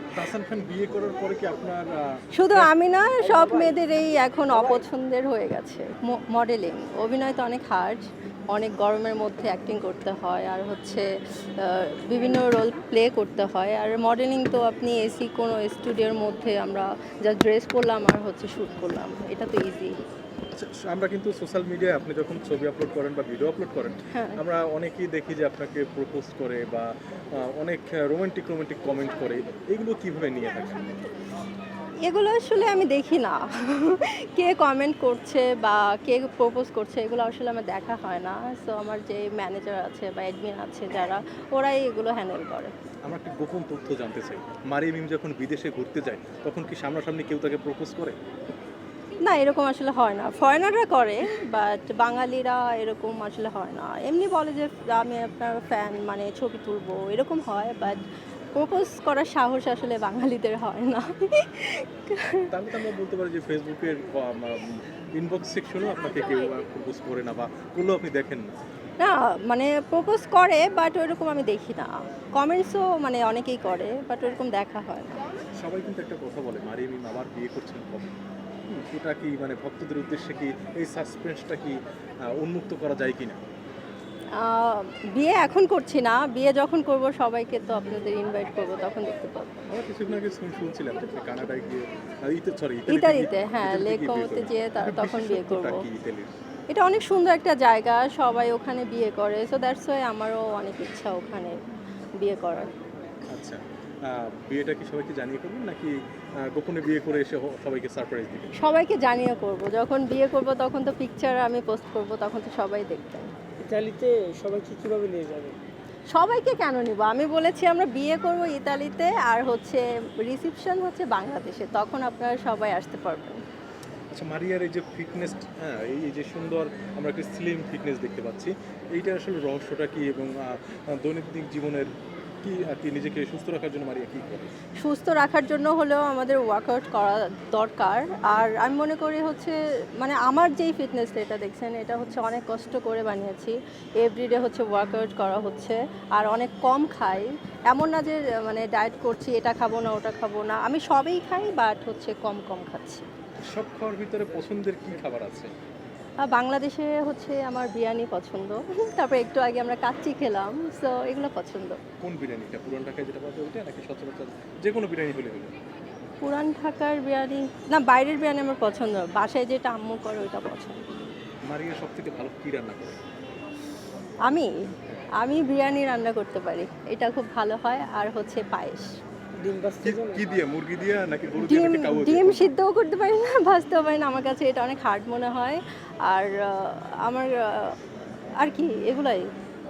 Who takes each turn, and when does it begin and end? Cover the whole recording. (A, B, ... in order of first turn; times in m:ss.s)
0:00.1-0:02.7 A
0:02.4-0:19.9 B
0:20.5-0:30.8 A
0:24.1-0:24.4 B
0:32.0-0:42.7 B
0:43.1-0:48.2 A
0:49.2-0:58.0 B
0:58.6-1:02.5 B
1:02.5-1:08.5 A
1:09.0-1:15.2 B
1:15.6-1:18.1 A
1:18.7-1:21.8 A
1:22.3-1:23.4 A
1:24.3-1:29.6 B
1:29.7-1:36.3 A
1:32.9-1:35.8 B
1:36.7-1:41.6 B
1:42.2-1:42.8 B
1:43.3-1:48.5 A
1:48.6-1:53.3 B
1:53.6-1:55.6 C
1:56.1-2:03.4 B
2:04.1-2:11.9 A
2:12.4-2:14.5 A
2:14.8-2:33.1 B
2:33.5-2:35.5 A
2:36.2-2:41.8 B
2:42.0-2:45.5 A
2:46.2-2:50.8 B
2:51.5-2:53.0 A
2:55.2-2:58.9 B
2:59.4-3:00.2 C
2:59.8-3:02.5 A
3:01.4-3:07.8 B
3:08.4-3:09.3 B